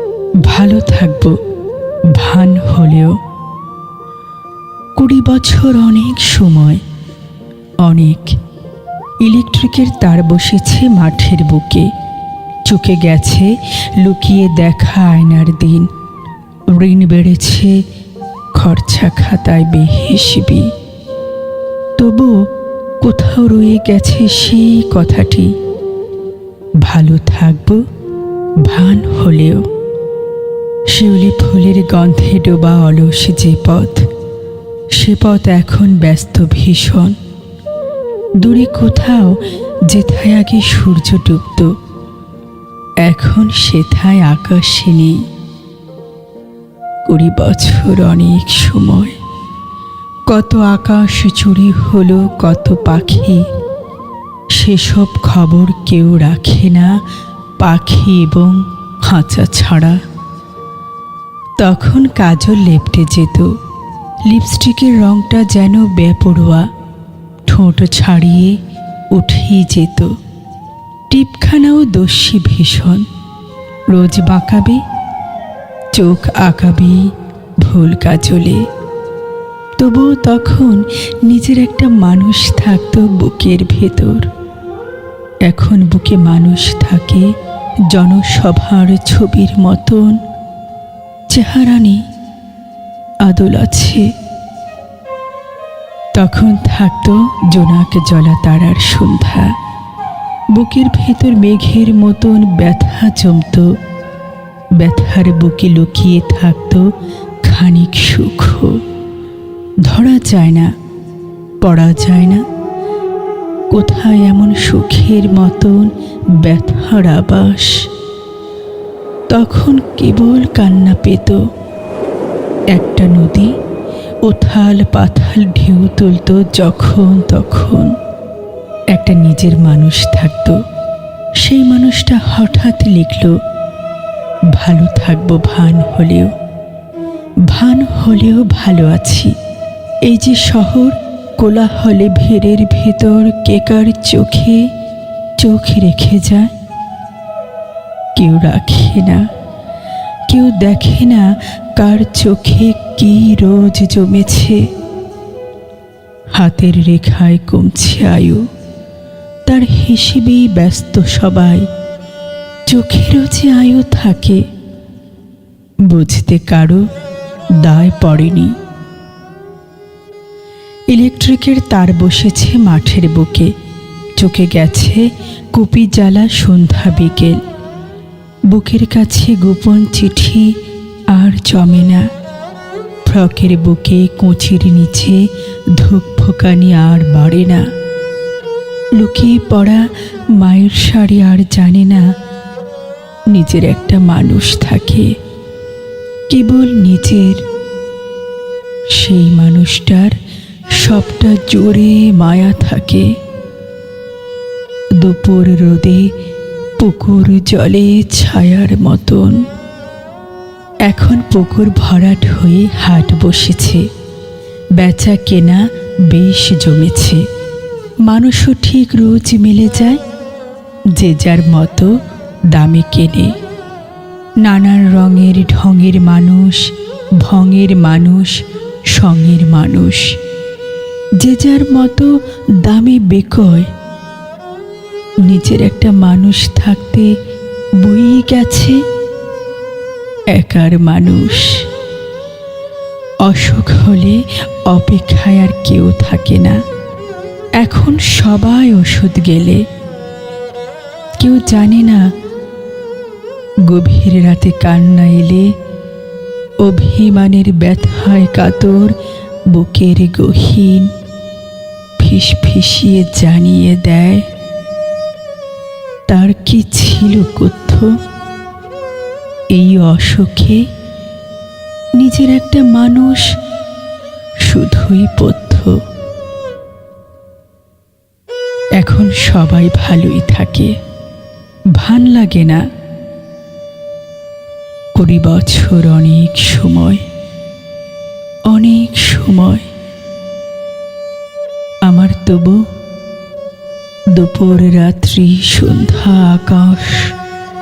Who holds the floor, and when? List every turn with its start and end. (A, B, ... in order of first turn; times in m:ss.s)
0:00.5-0:01.4 A
0:02.2-0:03.2 A
0:05.0-0:06.8 A
0:07.8-0:08.4 A
0:09.2-0:11.9 A
0:12.7-0:15.9 A
0:16.7-0:17.8 A
0:18.6-0:20.7 A
0:22.0-0:22.4 A
0:23.0-0:25.5 A
0:26.8-0:27.8 A
0:28.6-0:29.6 A
0:30.9-0:34.0 A
0:35.0-0:37.2 A
0:38.4-0:41.7 A
0:43.0-0:45.2 A
0:47.0-0:49.2 A
0:50.3-0:53.5 A
0:54.6-0:56.9 A
0:57.6-1:00.0 A
1:01.6-1:03.5 A
1:04.3-1:06.7 A
1:07.5-1:08.6 A
1:09.1-1:10.1 A
1:11.1-1:13.1 A
1:13.9-1:14.8 A
1:15.9-1:17.1 A
1:17.6-1:18.6 A
1:19.8-1:24.3 A
1:25.5-1:27.3 A
1:27.9-1:30.2 A
1:31.3-1:32.0 A
1:33.2-1:34.1 A
1:36.2-1:39.5 A
1:40.6-1:43.7 A
1:44.8-1:46.9 A
1:47.4-1:48.8 A
1:49.8-1:50.7 A
1:51.6-1:52.4 A
1:53.7-1:57.8 A
1:59.3-2:01.4 A
2:02.7-2:03.5 A
2:04.3-2:08.0 A
2:08.9-2:10.6 A
2:11.4-2:13.4 A
2:14.5-2:16.3 A
2:17.5-2:19.3 A
2:20.1-2:24.7 A
2:25.4-2:26.5 A
2:28.2-2:29.2 A
2:30.3-2:34.6 A
2:36.3-2:38.4 A
2:39.5-2:41.7 A
2:42.7-2:44.4 A
2:45.9-2:46.8 A
2:47.6-2:48.6 A
2:50.9-2:53.5 A
2:54.2-2:57.4 A
2:58.5-3:00.5 A
3:01.1-3:02.1 A
3:03.1-3:05.2 A
3:05.8-3:07.7 A
3:09.0-3:12.1 A
3:13.3-3:15.1 A
3:16.3-3:17.4 A
3:18.9-3:20.2 A
3:20.8-3:23.1 A
3:25.0-3:26.1 A
3:26.8-3:29.4 A
3:30.9-3:33.8 A
3:34.8-3:37.2 A
3:38.0-3:40.0 A
3:41.0-3:42.0 A
3:42.5-3:43.3 A
3:44.4-3:48.4 A
3:48.9-3:50.2 A
3:51.2-3:53.7 A
3:55.2-3:57.1 A
3:57.8-3:58.8 A
4:00.3-4:01.6 A
4:03.2-4:06.6 A
4:07.6-4:09.6 A
4:11.2-4:12.0 A
4:13.7-4:15.5 A
4:16.6-4:18.9 A
4:19.5-4:20.9 A
4:22.0-4:24.2 A
4:26.1-4:27.9 A
4:29.5-4:30.6 A
4:32.0-4:33.3 A
4:34.4-4:35.8 A
4:38.8-4:40.7 A
4:41.8-4:42.6 A
4:45.0-4:47.0 A
4:48.5-4:49.7 A
4:51.8-4:52.6 A
4:54.1-4:57.1 A